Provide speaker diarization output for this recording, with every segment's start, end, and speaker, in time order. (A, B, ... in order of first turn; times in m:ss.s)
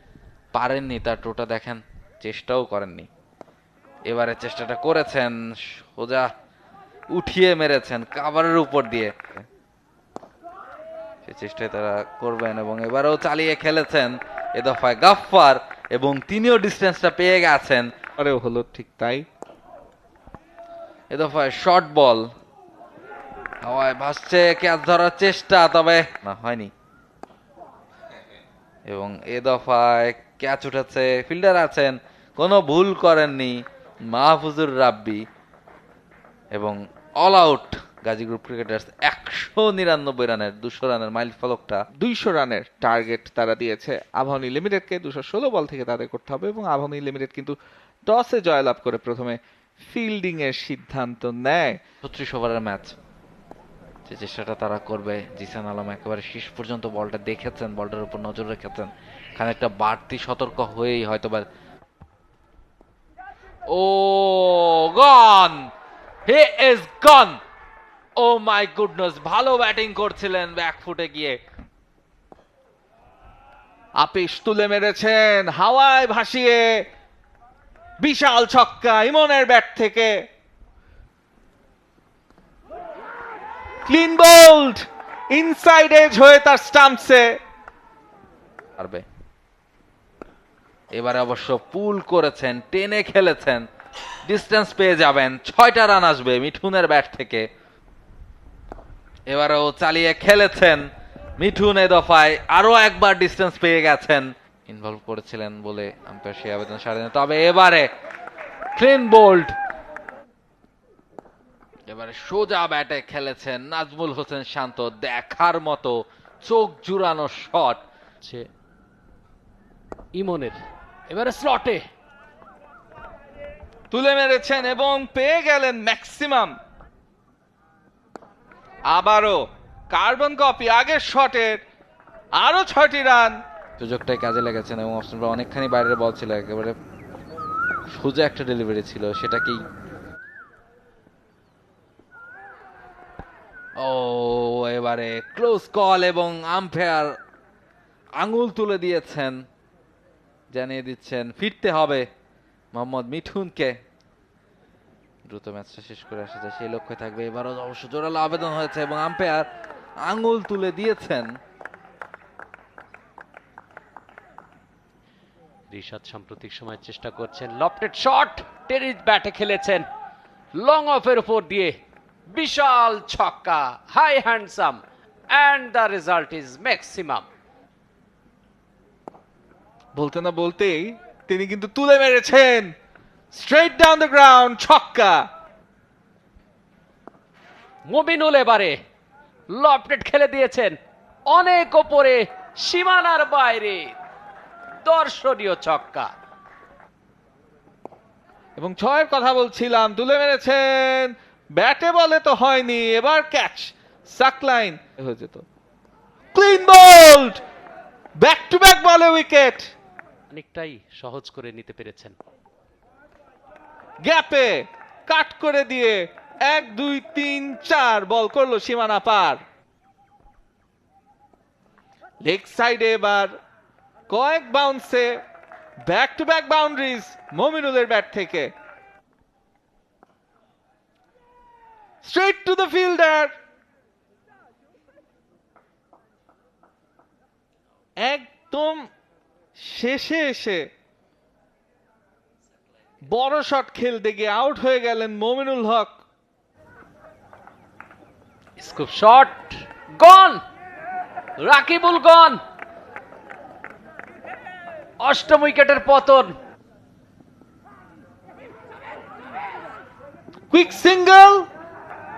0:00.6-0:03.1 A
0:04.1-0:06.3 A
0:07.1-0:09.1 A
0:11.2-0:17.9 A
0:18.2-0:19.2 B
0:21.1-0:22.2 A
0:23.6-0:26.7 A
0:28.9-0:33.5 A
0:34.1-0:35.2 A
0:36.5-0:41.8 A
0:42.0-0:47.6 B
0:48.1-0:51.8 B
0:52.0-0:53.0 A
0:54.1-1:01.4 A
1:03.7-1:05.6 A
1:06.3-1:07.4 A
1:08.2-1:11.4 A
1:14.0-1:16.8 B
1:18.0-1:20.1 B
1:23.9-1:27.3 B
1:28.8-1:29.0 A
1:30.9-1:33.6 A
1:34.3-1:37.4 A
1:39.3-1:47.9 A
1:48.8-1:49.6 A
1:51.9-1:57.8 A
2:00.2-2:00.6 C
2:01.1-2:01.8 C
2:03.9-2:06.5 B
2:08.9-2:11.6 B
2:12.4-2:13.4 B
2:13.8-2:16.8 A
2:17.9-2:19.6 A
2:23.8-2:27.1 A
2:28.2-2:29.4 A
2:30.5-2:32.1 A
2:32.7-2:33.8 A
2:35.2-2:39.5 A
2:40.0-2:41.3 A
2:45.7-2:49.9 C
2:50.6-2:51.7 C
2:52.3-2:54.8 C
2:55.3-2:57.2 C
3:00.0-3:02.7 B
3:03.3-3:05.2 B
3:07.9-3:08.8 C
3:09.5-3:10.8 C
3:11.3-3:14.0 C
3:14.8-3:16.1 C
3:18.6-3:25.4 B
3:26.3-3:27.4 B
3:28.2-3:29.7 B
3:30.3-3:32.2 C
3:34.0-3:39.4 B
3:42.2-3:43.3 B
3:44.1-3:45.1 B
3:45.9-3:48.5 B
3:52.0-3:53.3 B
3:58.0-3:58.8 B
3:59.6-4:00.6 B
4:03.1-4:06.0 B
4:08.6-4:10.4 C
4:11.4-4:12.4 C
4:15.0-4:16.3 C
4:20.5-4:21.4 B